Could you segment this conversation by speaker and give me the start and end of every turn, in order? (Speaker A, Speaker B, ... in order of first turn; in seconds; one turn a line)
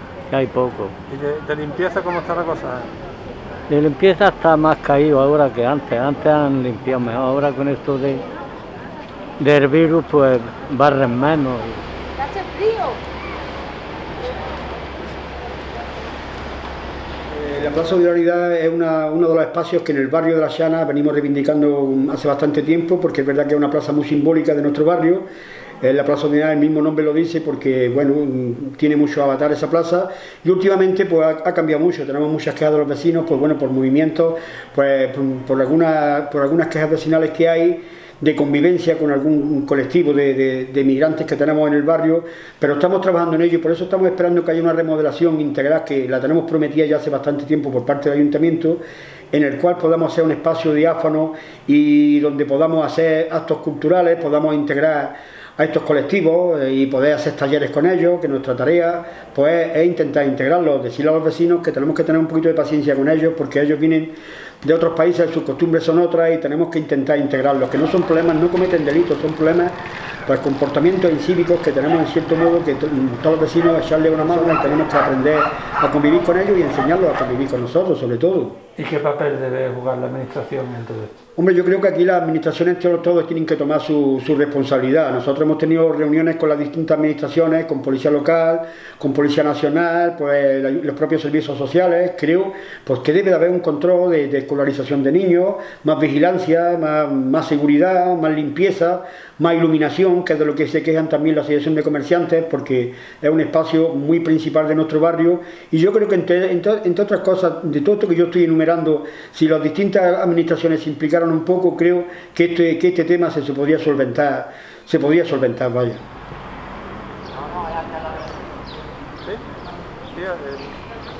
Speaker A: 0.3-1.0
Speaker B: 1.1-2.9
Speaker A: 3.7-8.2
Speaker A: 9.4-11.8
Speaker C: 17.3-25.3
Speaker C: 25.8-78.6
Speaker B: 78.8-81.1
Speaker C: 81.4-116.0
Speaker B: 120.1-120.8